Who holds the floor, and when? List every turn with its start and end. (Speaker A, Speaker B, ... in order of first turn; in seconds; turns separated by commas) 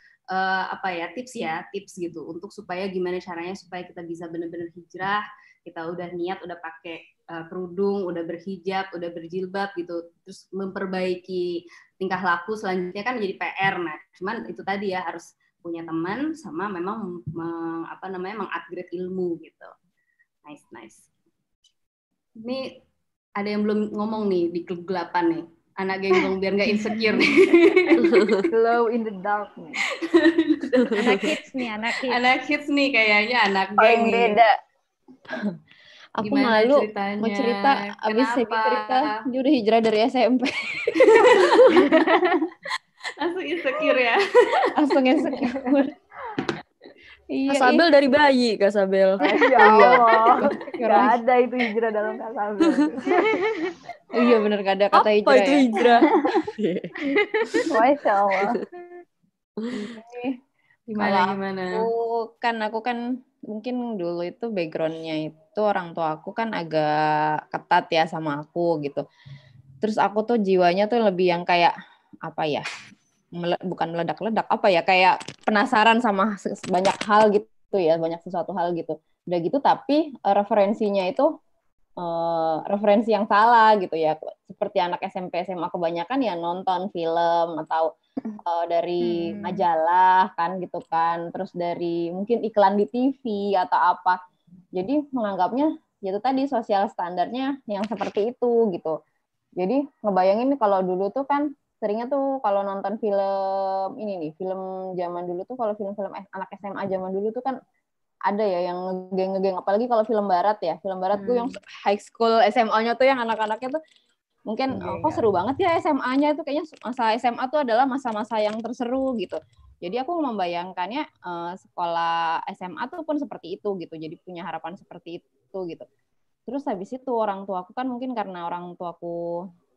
Speaker A: 0.3-19.7, Speaker A: 20.4-21.1, Speaker A: 22.4-22.8, Speaker A: 23.4-28.1, Speaker B: 28.0-28.4, Speaker C: 28.5-29.8, Speaker A: 30.0-31.2, Speaker B: 30.8-31.1, Speaker D: 30.9-32.2, Speaker A: 32.1-34.4, Speaker E: 33.8-34.5, Speaker B: 36.2-37.6, Speaker A: 36.2-39.2, Speaker F: 37.7-41.3, Speaker A: 41.0-41.5, Speaker B: 41.4-41.8, Speaker D: 41.7-42.4, Speaker A: 43.2-44.9, Speaker F: 44.7-45.9, Speaker A: 47.4-47.8, Speaker B: 47.5-51.1, Speaker C: 49.3-53.1, Speaker F: 49.6-50.1, Speaker D: 53.1-53.7, Speaker F: 54.1-55.8, Speaker B: 54.9-56.9, Speaker E: 56.1-56.5, Speaker D: 57.1-57.6, Speaker E: 57.7-58.6, Speaker B: 58.4-58.6, Speaker B: 59.6-59.9, Speaker F: 59.8-60.3, Speaker A: 60.9-61.8, Speaker F: 61.0-69.0, Speaker F: 69.8-71.7, Speaker F: 72.2-72.6, Speaker F: 73.3-81.3, Speaker F: 82.0-87.9, Speaker F: 88.4-94.2, Speaker D: 89.0-89.6, Speaker F: 94.7-98.9, Speaker F: 99.6-107.6, Speaker F: 108.3-113.8, Speaker A: 111.1-111.6, Speaker F: 114.5-125.8, Speaker A: 114.8-115.1, Speaker F: 126.5-129.2